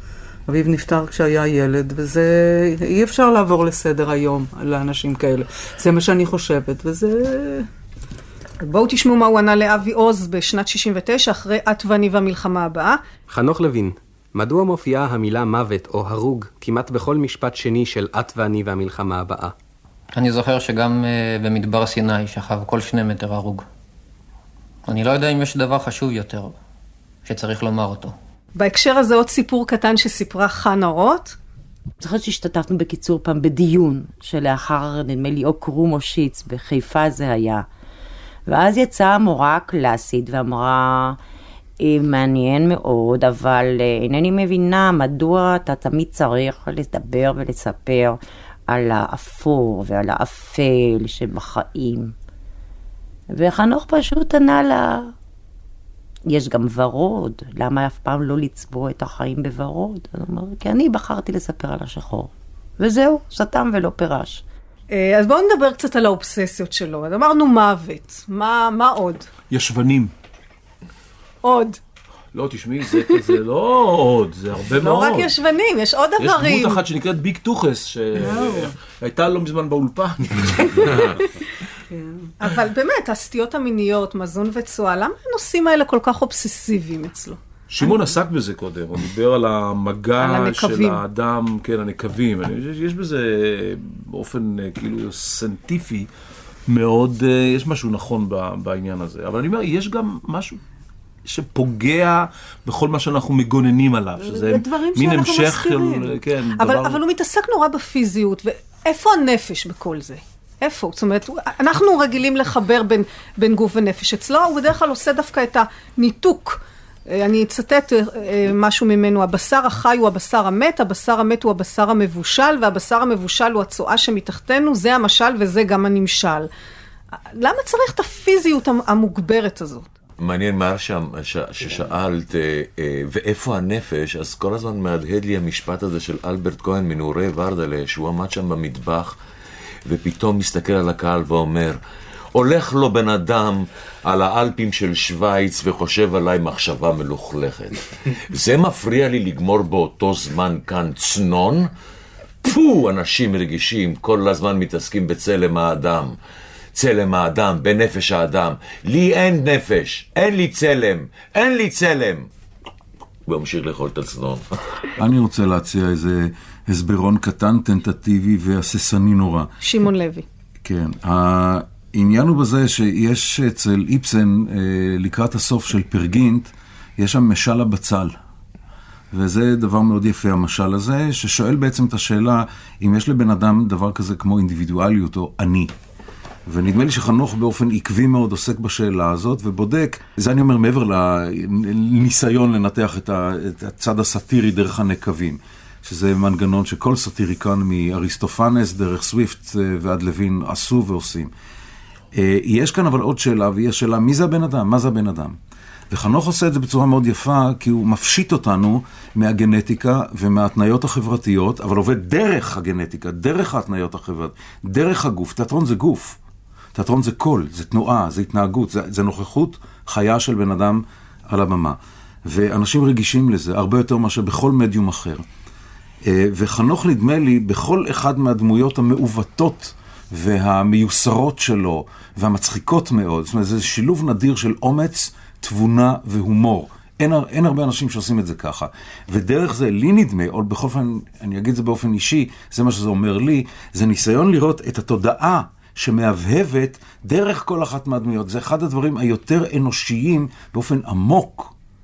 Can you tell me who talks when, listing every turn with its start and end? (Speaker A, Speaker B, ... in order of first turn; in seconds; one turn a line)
Speaker A: 0.5-7.7
Speaker B: 8.6-13.0
Speaker C: 13.3-19.5
Speaker D: 20.1-23.6
Speaker D: 24.9-26.5
Speaker D: 27.2-28.1
Speaker B: 28.6-31.4
Speaker E: 32.0-37.7
Speaker E: 38.5-41.2
Speaker E: 41.8-52.1
Speaker E: 53.3-55.1
Speaker E: 56.3-64.4
Speaker B: 64.9-69.3
Speaker F: 69.5-70.1
Speaker B: 71.4-71.8
Speaker F: 72.3-75.3
Speaker B: 74.8-76.8
Speaker F: 76.2-81.2
Speaker A: 78.2-78.7
Speaker A: 81.9-82.3
Speaker B: 82.4-87.9
Speaker F: 87.7-96.1
Speaker B: 90.2-91.0
Speaker F: 96.7-100.6
Speaker F: 101.3-107.0
Speaker A: 104.2-106.2
Speaker B: 106.6-126.5
Speaker B: 127.3-129.9
Speaker G: 130.2-139.2
Speaker G: 139.9-141.8
Speaker G: 142.3-151.7
Speaker G: 152.4-156.1
Speaker G: 156.8-162.3
Speaker G: 163.3-164.4
Speaker H: 165.0-169.5
Speaker B: 169.6-170.2
Speaker H: 170.6-178.2
Speaker H: 179.1-185.7
Speaker H: 186.5-201.3
Speaker H: 202.1-205.4
Speaker H: 205.9-216.2
Speaker H: 216.8-225.2
Speaker H: 226.1-251.5